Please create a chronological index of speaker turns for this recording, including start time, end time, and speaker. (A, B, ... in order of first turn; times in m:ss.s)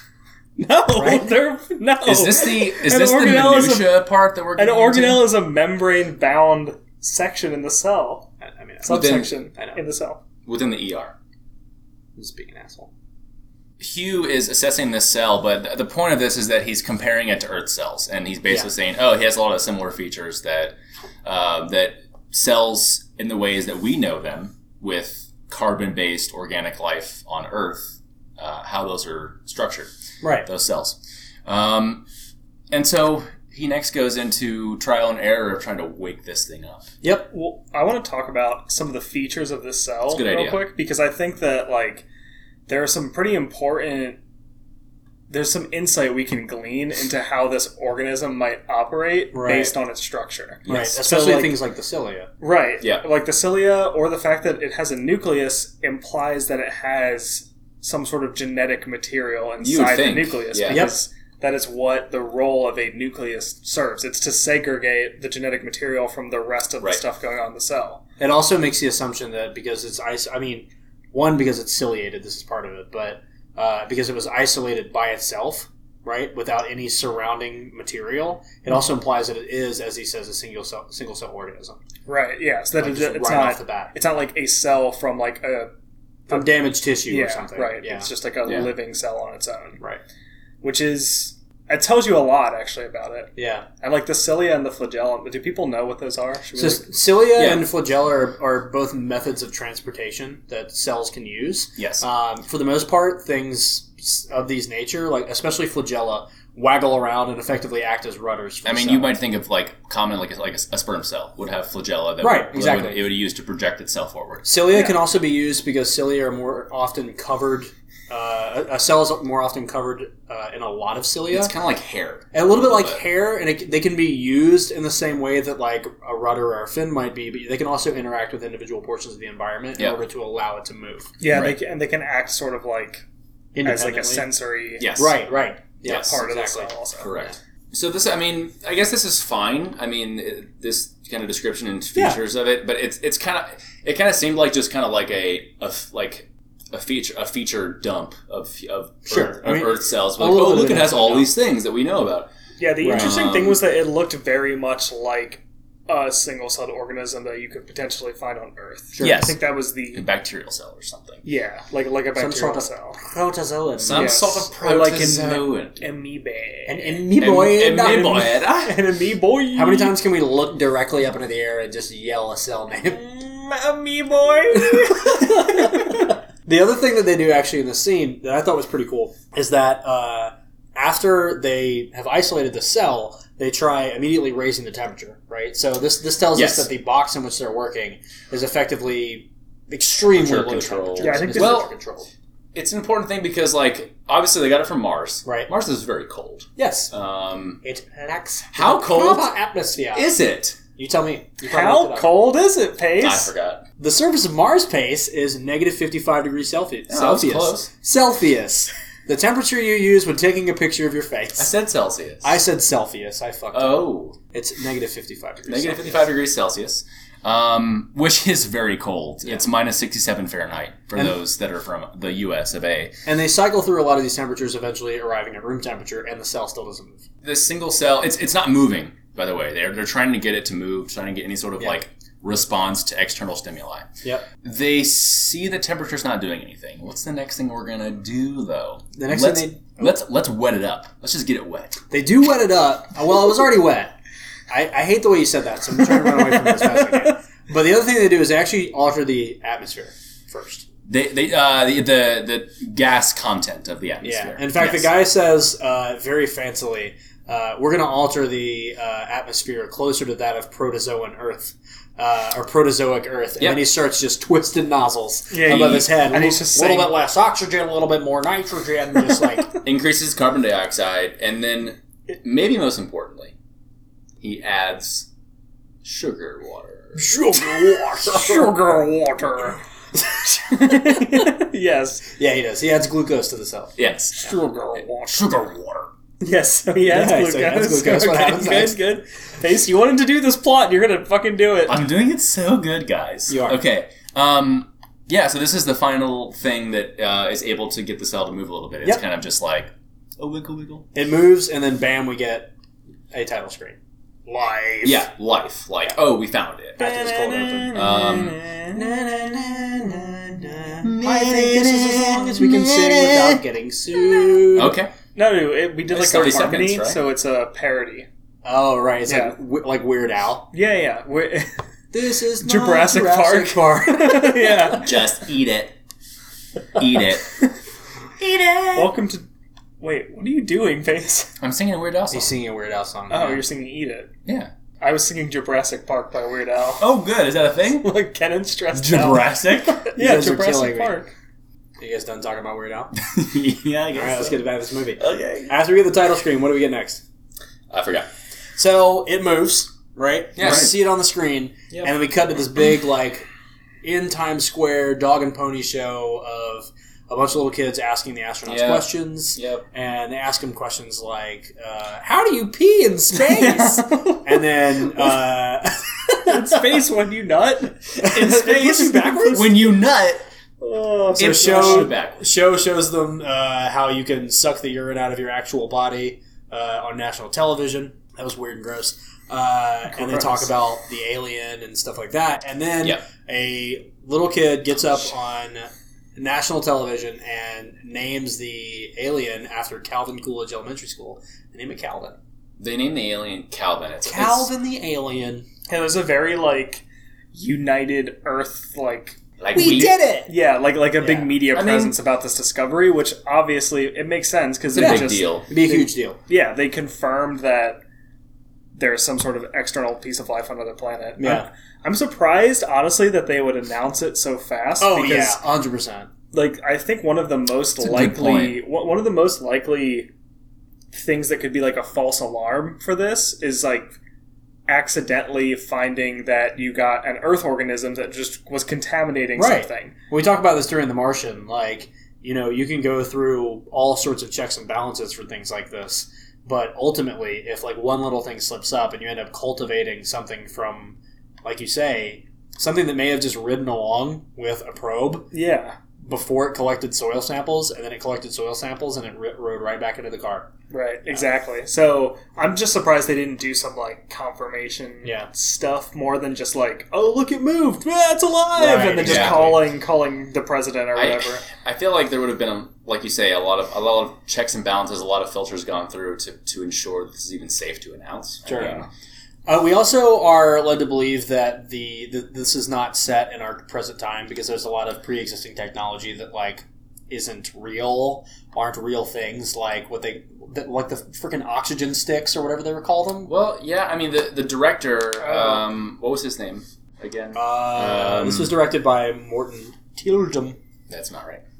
0:00.6-0:04.0 A
0:01.0-0:01.4 B
0:02.0-0:05.2 C
0:04.6-0:08.3 A
0:08.4-0:09.8 B
0:08.8-0:10.2 A
0:08.9-0:09.3 C
0:10.4-0:11.1 C
0:12.2-0:12.9 B
0:13.8-0:29.9 C
0:30.2-0:30.5 B
0:30.4-0:32.0 C
0:32.7-0:36.9 C
0:37.3-0:42.0 A
0:40.1-0:40.6 C
0:42.7-0:44.2 A
0:45.3-0:51.6 A
0:49.3-0:49.7 B
0:50.6-0:51.0 C
0:50.7-0:52.3 B
0:52.4-1:08.0 A
0:59.6-1:00.9 C
1:00.6-1:00.9 B
1:08.2-1:21.8 B
1:22.1-1:25.7 A
1:22.8-1:23.9 B
1:26.3-1:28.1 B
1:27.1-1:29.8 A
1:28.4-1:28.7 C
1:30.6-1:37.0 A
1:33.4-1:33.6 B
1:36.6-1:49.1 B
1:37.3-1:37.7 C
1:41.8-1:42.0 C
1:48.6-1:54.6 C
1:52.2-1:53.0 B
1:54.4-2:01.5 B
2:01.3-2:03.0 C
2:02.3-2:11.1 B
2:11.2-2:13.0 A
2:11.2-2:11.6 C
2:13.6-2:14.3 B
2:13.6-2:14.9 A
2:14.8-2:15.2 C
2:14.9-2:17.3 B
2:15.8-2:16.2 C
2:15.9-2:17.1 A
2:17.0-2:32.3 C
2:21.9-2:22.2 B
2:29.1-2:31.3 B
2:32.6-2:40.0 A
2:32.8-2:33.2 B
2:32.9-2:33.6 C
2:38.9-2:39.3 B
2:39.0-2:39.4 C
2:39.9-2:41.2 C
2:41.2-2:43.0 A
2:42.1-2:44.1 B
2:43.8-2:45.8 C
2:43.9-2:47.1 A
2:46.7-2:48.4 B
2:47.2-2:48.8 C
2:47.8-2:50.0 A
2:49.5-2:53.0 B
2:52.9-2:56.1 A
2:54.5-3:12.1 B
3:06.3-3:06.7 C
3:10.0-3:11.7 C
3:11.0-3:11.6 A
3:12.5-3:17.6 C
3:15.2-3:15.5 B
3:16.6-3:16.9 B
3:17.6-3:20.1 B
3:18.5-3:19.3 C
3:19.9-3:20.6 C
3:20.8-3:22.2 B
3:21.4-3:23.3 A
3:23.0-3:23.6 C
3:23.8-3:31.5 B
3:26.9-3:27.7 C
3:31.4-3:32.4 C
3:32.2-3:36.0 B
3:33.5-3:34.2 C
3:35.5-3:42.9 C
3:43.0-3:47.0 B
3:47.2-3:53.9 C
3:54.4-4:01.8 C
3:58.9-4:00.0 B
4:01.9-4:03.9 B
4:04.5-4:10.6 B
4:10.9-4:14.9 C
4:14.0-4:29.5 B
4:25.3-4:27.0 A
4:25.5-4:25.9 C
4:29.6-4:33.3 C
4:34.2-4:35.1 C
4:35.8-4:37.2 C
4:36.9-4:38.6 B
4:37.7-4:39.6 A
4:40.0-4:41.3 B
4:40.5-4:42.0 A
4:42.2-4:44.3 B
4:43.8-4:44.2 C
4:44.2-4:45.3 A
4:44.8-4:45.9 C
4:46.2-4:51.8 A
4:46.9-4:48.8 B
4:51.7-5:00.8 C
4:53.3-4:53.6 B
5:00.9-5:02.5 B
5:03.1-5:05.0 B
5:04.8-5:06.8 C
5:06.8-5:07.8 B
5:06.8-5:08.8 A
5:07.7-5:08.4 C
5:08.7-5:14.7 B
5:10.8-5:13.4 C
5:14.5-5:14.9 C
5:15.1-5:18.1 A
5:15.9-5:17.0 C
5:18.4-5:20.5 B
5:19.1-5:19.4 A
5:20.5-5:21.5 A
5:21.9-5:24.9 B
5:22.4-5:24.9 A
5:24.8-5:25.7 C
5:26.7-5:27.3 C
5:28.2-5:28.9 C
5:28.7-5:29.2 A
5:29.8-5:31.3 A
5:31.4-5:32.3 C
5:32.1-5:33.4 B
5:33.1-5:34.1 A
5:34.2-5:34.5 C
5:34.8-5:36.8 A
5:36.8-5:37.9 C
5:37.8-5:41.1 A
5:38.7-5:39.8 C
5:39.9-5:41.0 B
5:41.8-5:42.9 B
5:43.0-5:44.5 C
5:43.9-5:47.0 B
5:45.0-5:45.5 C
5:47.7-5:48.1 C
5:48.6-5:53.2 B
5:50.4-5:50.7 C
5:53.8-6:06.7 B
5:58.4-5:59.6 C
6:03.2-6:04.4 A
6:06.2-6:09.5 A
6:08.0-6:09.5 B
6:08.0-6:10.2 C
6:10.6-6:11.9 A
6:11.2-6:12.2 C
6:11.2-6:32.2 B
6:20.0-6:20.5 A
6:32.6-6:34.5 C
6:34.0-6:35.4 B
6:35.7-6:36.8 A
6:37.3-6:47.8 A
6:39.4-6:40.0 C
6:39.5-6:40.3 B
6:41.0-6:41.3 B
6:41.5-6:41.9 C
6:44.7-6:45.4 C
6:44.8-6:46.2 B
6:48.8-6:55.4 A
6:51.2-6:51.5 B
6:54.8-6:56.1 B
6:56.3-7:00.1 A
6:57.8-6:58.6 C
7:00.9-7:03.9 A
7:04.7-7:09.9 A
7:09.4-7:25.3 B
7:25.3-7:25.8 A
7:26.0-7:30.5 B
7:30.7-7:41.4 A
7:35.0-7:35.3 B
7:38.5-7:39.6 B
7:39.0-7:39.5 C
7:40.9-7:48.8 C
7:48.4-7:48.8 B
7:48.6-7:48.8 A
7:49.5-8:03.3 B
8:03.3-8:08.5 C
8:05.2-8:05.6 A
8:07.3-8:10.6 B
8:10.9-8:11.4 C